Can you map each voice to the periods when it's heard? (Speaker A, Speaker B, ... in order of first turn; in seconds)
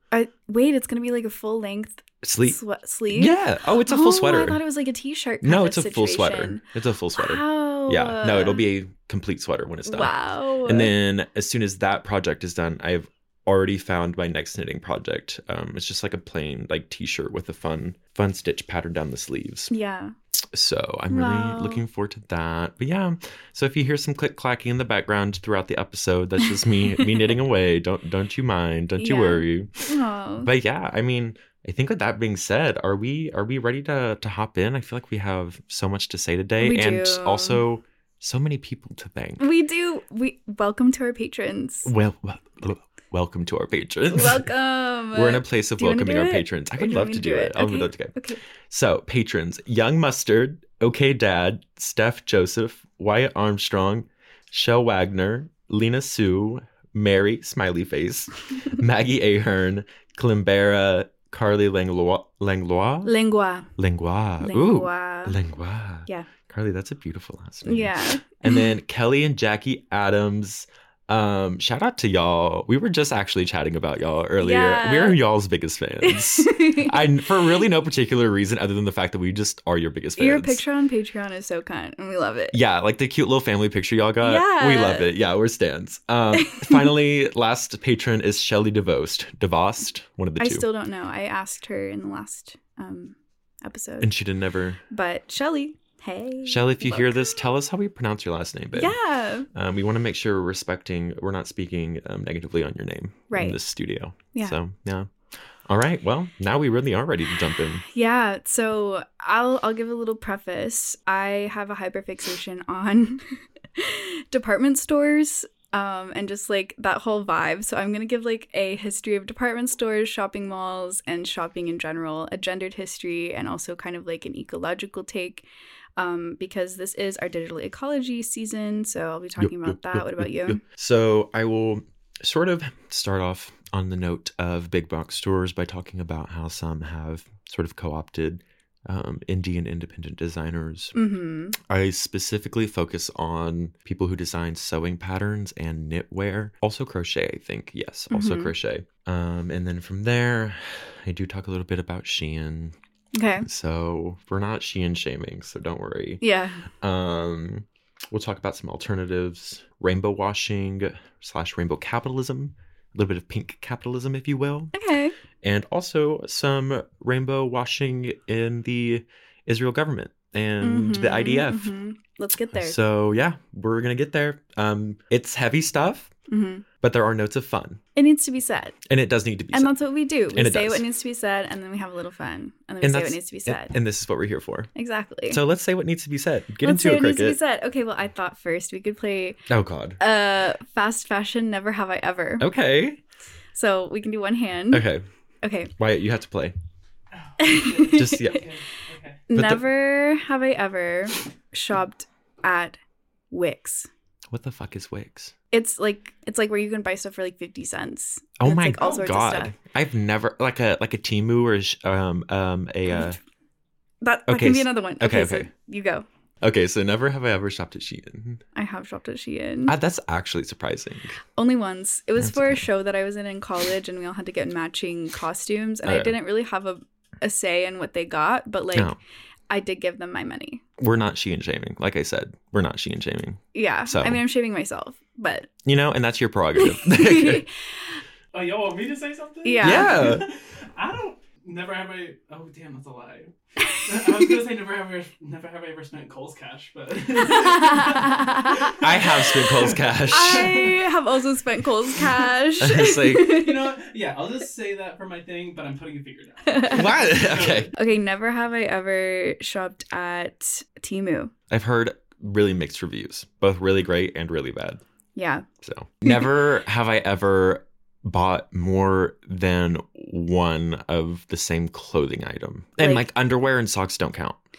Speaker A: 0.1-3.3, 3.9-6.6, 7.2-8.6, 9.9-10.9, 19.7-20.1, 21.1-21.8, 29.0-30.5, 36.6-37.6, 39.4-41.9, 44.1-48.4, 63.0-63.7, 64.4-65.3, 67.7-68.7, 74.4-75.2, 76.0-76.9, 80.2-82.5, 84.2-85.1, 86.5-86.9, 90.4-94.1, 94.9-97.4, 98.8-99.5, 103.3-103.6, 107.9-125.4, 126.0-130.6, 140.9-141.6, 148.1-148.5, 153.1-153.5, 156.2-156.6, 164.7-165.1, 170.6-172.8, 176.3-176.6, 177.9-178.8, 179.5-183.7, 184.7-185.4, 186.6-189.4, 190.0-192.5, 193.5-194.8, 195.4-195.7, 197.4-198.4, 199.3-202.8, 203.3-203.9, 205.5-209.5, 212.9-213.2, 214.0-216.0, 218.5-219.7, 221.3-228.9, 229.5-230.6, 233.5-235.5, 236.8-238.0, 239.4-240.1, 243.6-244.3, 247.2-248.7, 250.1-253.7, 256.5-256.8, 257.8-261.3, 265.1-265.4, 272.8-273.0
Speaker B: 2.2-2.6, 3.1-4.6, 5.4-19.7, 20.5-29.9, 30.4-39.4, 41.9-44.5, 45.1-48.2, 48.7-63.1, 63.8-80.6, 82.5-90.7, 94.0-94.8, 96.4-99.0, 99.5-105.1, 105.7-107.8, 129.4-140.9, 141.7-152.7, 153.4-156.2, 156.8-164.7, 165.4-171.7, 172.5-176.1, 176.8-177.8, 178.9-179.8, 180.3-180.8, 182.8-184.7, 185.3-187.4, 189.5-190.0, 192.4-193.0, 194.7-195.0, 195.8-196.5, 197.9-198.4, 199.3-199.7, 204.3-205.3, 208.4-213.2, 214.3-215.5, 216.4-218.4, 219.7-221.2, 222.2-222.6, 225.8-226.1, 230.8-234.2, 235.6-237.4, 239.6-240.2, 248.8-250.6, 252.6-253.3, 256.7-257.7, 261.5-264.8, 265.6-274.4
Speaker C: 197.1-199.2, 238.3-250.7, 253.3-257.7